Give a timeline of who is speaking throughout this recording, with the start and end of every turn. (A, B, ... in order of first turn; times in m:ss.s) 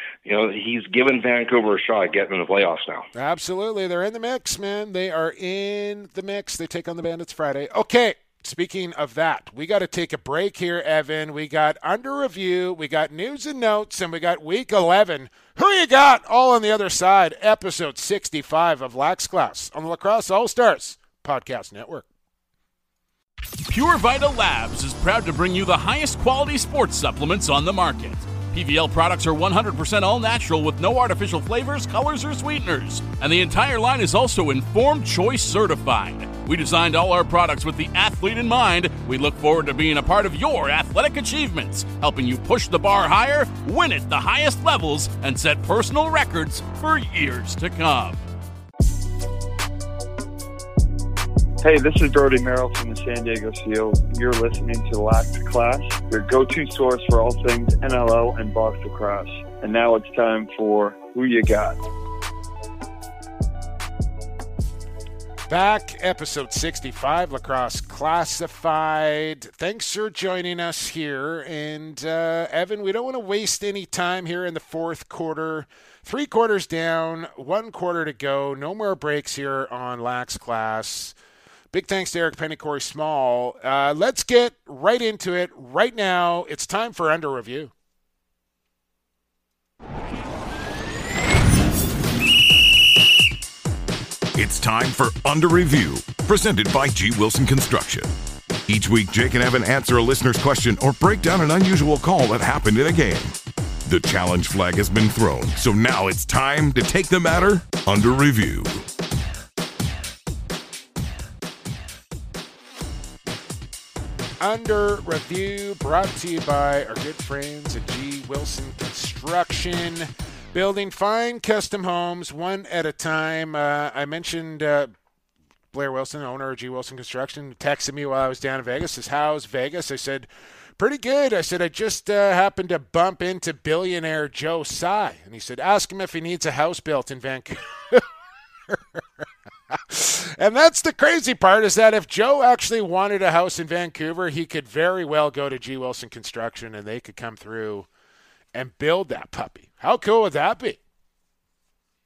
0:00.2-0:03.1 A
0:03.1-0:22.0 B
0:23.7-0:48.2 C
0:51.6-1:01.8 D
1:05.5-1:21.1 B
1:21.7-1:27.7 B
1:34.3-1:38.1 E
1:38.7-1:43.3 E
1:43.9-1:48.8 E
1:54.4-2:04.9 B
2:05.7-2:18.0 B
2:18.7-2:27.9 B
2:28.5-2:30.8 B